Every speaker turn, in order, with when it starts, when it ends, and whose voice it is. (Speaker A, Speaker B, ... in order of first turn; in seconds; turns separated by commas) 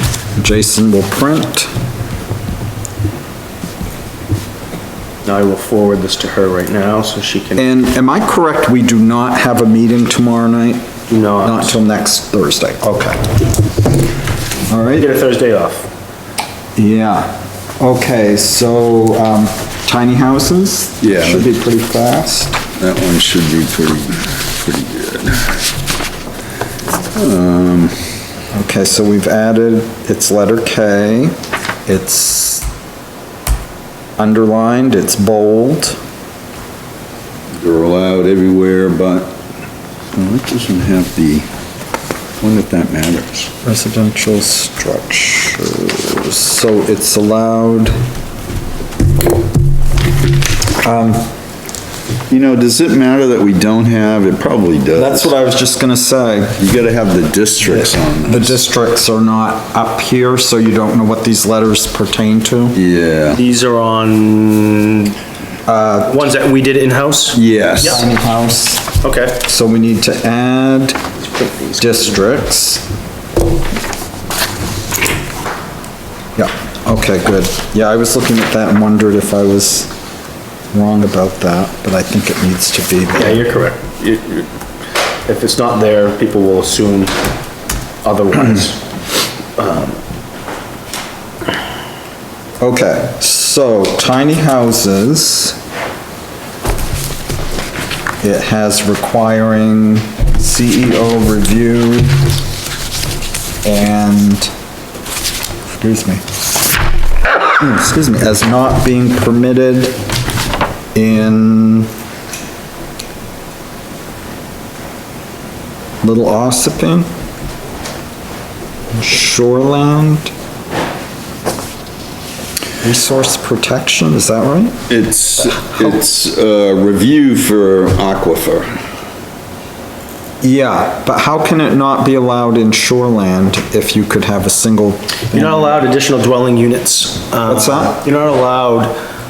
Speaker A: 0.4-1.7, Speaker B: 5.2-7.7, Speaker A: 7.6-10.9, Speaker B: 11.1-11.8, Speaker A: 11.4-13.2, Speaker A: 14.7-15.1, Speaker B: 14.9-15.9, Speaker A: 16.8-22.5, Speaker C: 21.0-21.5, Speaker C: 22.8-25.6, Speaker C: 27.1-27.9, Speaker A: 28.5-31.3, Speaker A: 31.9-32.6, Speaker A: 34.2-36.0, Speaker C: 37.6-39.3, Speaker C: 40.1-41.5, Speaker C: 42.4-43.5, Speaker A: 43.6-47.9, Speaker A: 50.8-51.3, Speaker C: 52.3-55.3, Speaker A: 54.9-56.6, Speaker C: 56.6-58.6, Speaker A: 58.2-62.8, Speaker C: 62.7-63.4, Speaker B: 63.3-65.1, Speaker A: 65.7-66.1, Speaker B: 66.0-68.0, Speaker C: 67.3-68.0, Speaker A: 67.8-68.9, Speaker B: 69.0-69.4, Speaker A: 69.4-71.0, Speaker B: 71.3-72.1, Speaker A: 71.8-72.8, Speaker A: 76.3-79.9, Speaker A: 80.7-83.4, Speaker B: 83.1-84.5, Speaker B: 85.2-87.1, Speaker B: 88.0-88.8, Speaker B: 89.6-90.0, Speaker A: 92.6-95.6, Speaker A: 98.2-102.2, Speaker A: 103.6-104.5, Speaker A: 105.7-106.2, Speaker A: 107.6-109.9, Speaker A: 110.9-111.9, Speaker A: 116.0-117.1, Speaker A: 118.9-120.3, Speaker A: 122.8-124.8, Speaker C: 124.9-128.7, Speaker A: 130.4-135.8, Speaker B: 135.3-138.9, Speaker A: 137.5-138.0